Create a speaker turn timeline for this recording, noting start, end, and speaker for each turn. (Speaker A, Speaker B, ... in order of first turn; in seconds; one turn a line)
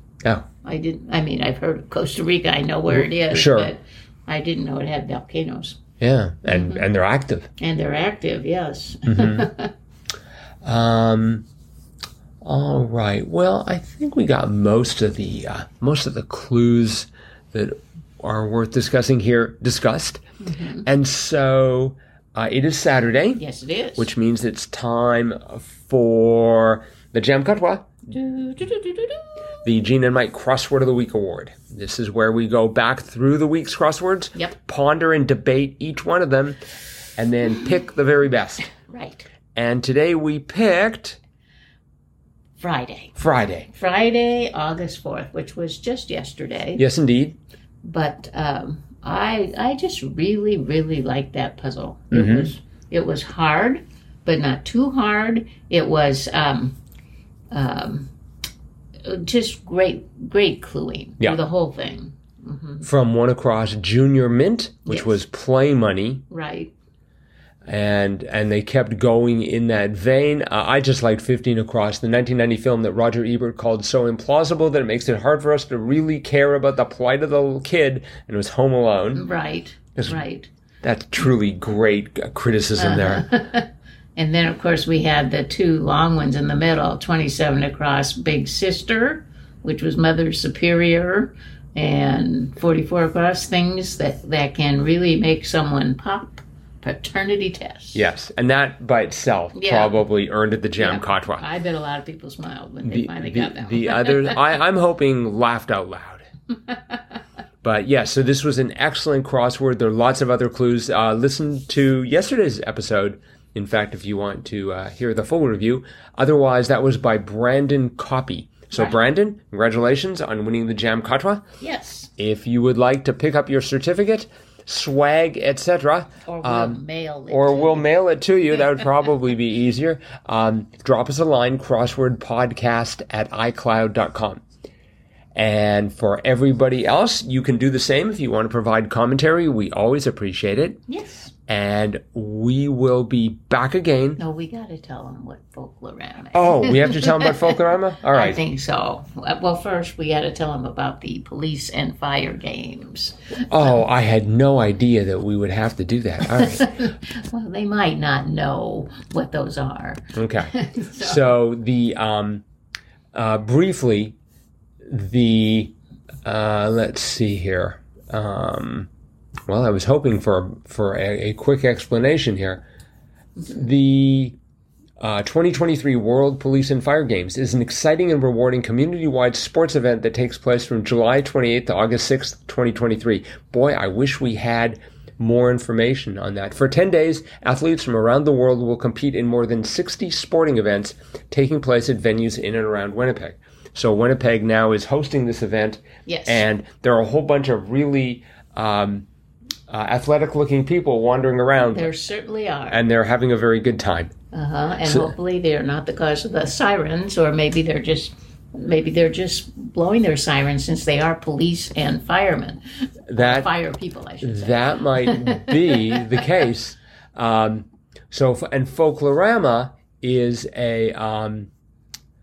Speaker A: 0.6-5.8
Speaker B: 3.0-3.7
Speaker B: 6.0-7.5
Speaker A: 6.5-6.8
Speaker A: 7.6-9.7
Speaker B: 9.1-9.5
Speaker B: 10.6-11.5
Speaker B: 12.4-20.2
Speaker A: 20.4-20.9
Speaker B: 20.9-23.4
Speaker A: 23.4-24.1
Speaker B: 24.0-27.9
Speaker A: 28.1-29.7
Speaker B: 29.6-36.6
Speaker B: 37.2-38.7
Speaker A: 38.8-39.3
Speaker B: 39.5-41.2
Speaker A: 42.6-43.2
Speaker B: 43.2-43.7
Speaker A: 43.7-46.8
Speaker B: 46.8-47.4
Speaker A: 47.8-56.8
Speaker B: 52.1-52.5
Speaker A: 57.5-58.1
Speaker A: 59.0-62.9
Speaker B: 62.8-66.2
Speaker A: 64.9-65.2
Speaker A: 66.3-66.7
Speaker B: 67.7-79.2
Speaker A: 79.1-80.5
Speaker B: 80.0-80.2
Speaker B: 80.8-83.3
Speaker A: 82.8-98.0
Speaker B: 98.0-101.4
Speaker A: 99.5-100.0
Speaker A: 100.8-104.6
Speaker B: 102.8-106.2
Speaker A: 106.7-107.0
Speaker B: 107.6-121.5
Speaker A: 121.6-122.1
Speaker B: 122.2-134.4
Speaker A: 126.3-127.9
Speaker B: 135.3-140.8
Speaker A: 140.9-141.3
Speaker B: 141.5-144.2
Speaker A: 144.2-153.2
Speaker B: 146.3-148.4
Speaker B: 153.5-156.7
Speaker A: 156.3-161.3
Speaker B: 160.2-162.4
Speaker B: 163.1-164.2
Speaker B: 164.9-165.7
Speaker B: 166.2-168.9
Speaker B: 169.5-172.6
Speaker B: 173.5-174.4
Speaker B: 175.0-199.1
Speaker A: 196.1-196.5
Speaker B: 199.7-201.9
Speaker A: 201.6-202.8
Speaker B: 202.7-204.1
Speaker A: 204.3-212.6
Speaker B: 204.8-205.1
Speaker B: 213.1-213.5
Speaker A: 213.1-216.3
Speaker B: 214.2-221.5